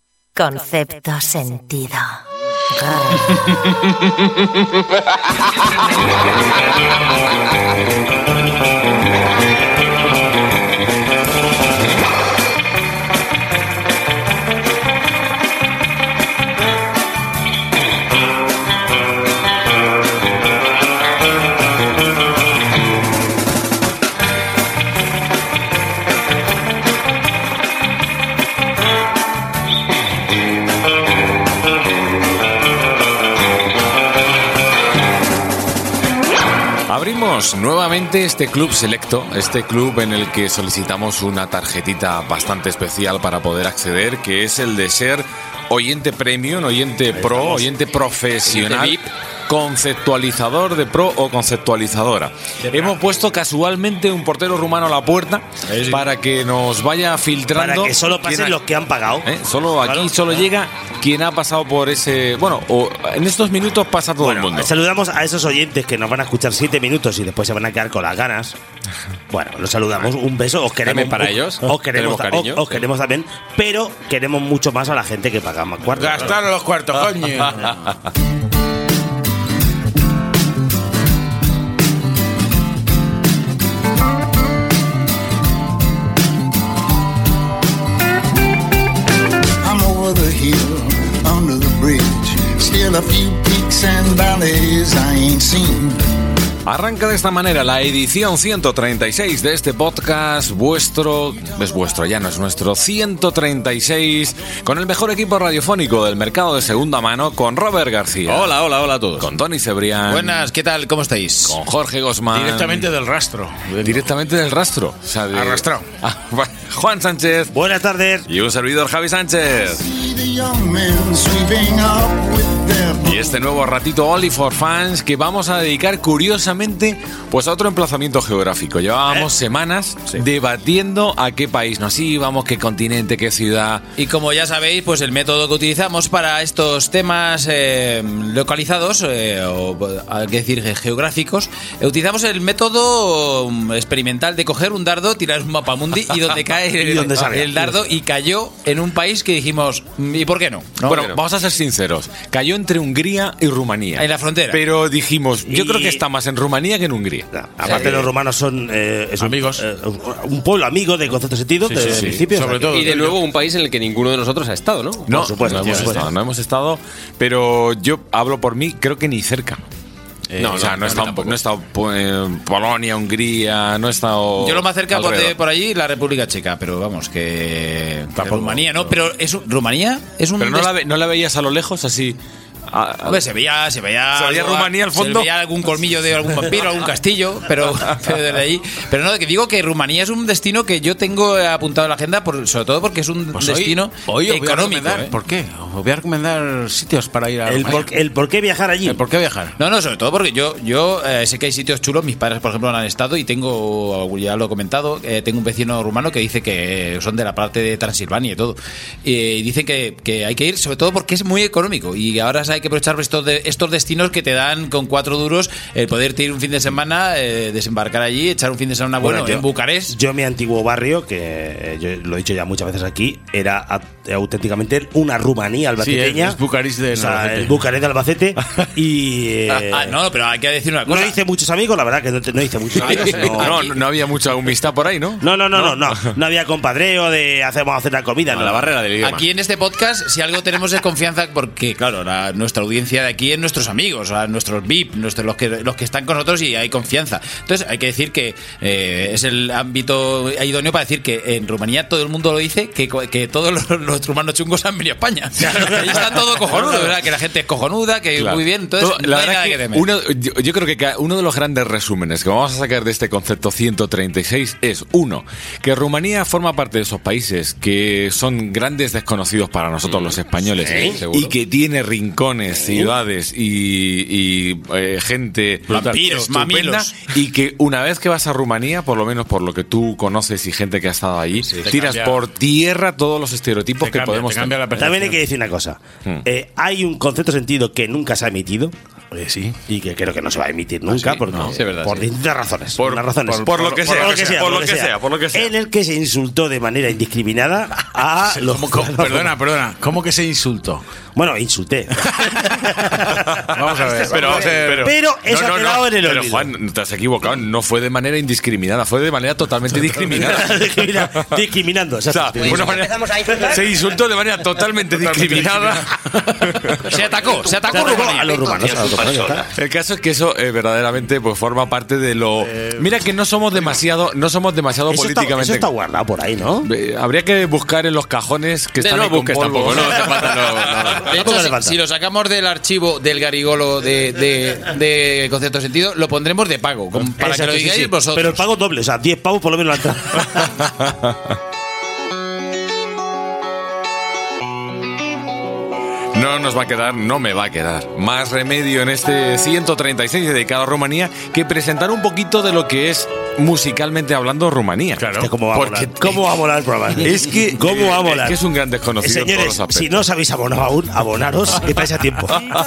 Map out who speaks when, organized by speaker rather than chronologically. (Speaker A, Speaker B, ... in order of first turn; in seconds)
Speaker A: 0.4-2.2, 2.7-3.4
Speaker B: 36.9-58.6, 59.2-64.7, 96.7-108.6, 109.2-110.5, 111.5-112.9, 113.8-117.5, 118.3-119.8, 123.0-133.8, 150.9-157.3, 161.8-162.2, 165.1-169.6, 170.5-175.4, 180.4-183.2, 184.1-185.3, 232.9-236.0, 258.2-284.6, 292.8-295.5, 304.1-310.6, 311.1-311.4, 312.1-317.1, 319.5-325.7, 326.6-330.3, 340.5-341.1, 346.1-356.4, 357.0-360.0
Speaker C: 47.1-47.7, 57.6-59.3, 59.8-60.1, 64.2-68.6, 69.3-76.4, 117.5-118.3, 146.8-147.8, 155.5-156.0, 157.3-162.9, 165.1-166.1, 197.5-199.1, 219.0-226.4, 226.9-230.0, 230.9-233.6, 235.2-238.8, 270.6-271.0, 284.8-288.7, 289.7-299.3, 301.1-303.3, 304.0-306.5, 310.1-312.9, 317.5-319.5, 324.9-326.7, 331.0-331.8, 337.2-340.7, 355.2-358.4, 359.0-362.4
Speaker D: 48.5-49.0, 55.6-56.0, 110.1-111.6, 134.0-151.1, 154.0-154.6, 174.4-180.7, 183.1-195.1, 199.6-219.9, 229.5-231.2, 232.8-233.7, 239.0-259.9, 275.7-276.9, 316.8-319.0, 330.9-338.4
Speaker E: 70.8-72.8, 150.9-151.2, 157.6-158.1, 162.7-165.9, 170.4-171.1, 238.3-239.2, 269.9-270.2, 270.7-271.3, 290.9-292.1, 328.8-331.1
Speaker F: 75.9-77.9, 108.3-109.3, 112.3-114.1, 115.3-115.8, 159.2-159.6, 161.6-163.2, 165.6-165.9, 170.3-171.4, 178.2-178.6, 193.3-197.9, 198.8-199.5, 225.8-227.6, 275.7-276.0, 281.5-282.2, 283.8-285.2, 289.1-289.6, 291.3-291.5, 293.3-294.2, 298.2-300.8, 303.5-304.9, 322.5-322.8, 355.0-355.3
Speaker G: 89.6-96.1, 119.9-123.3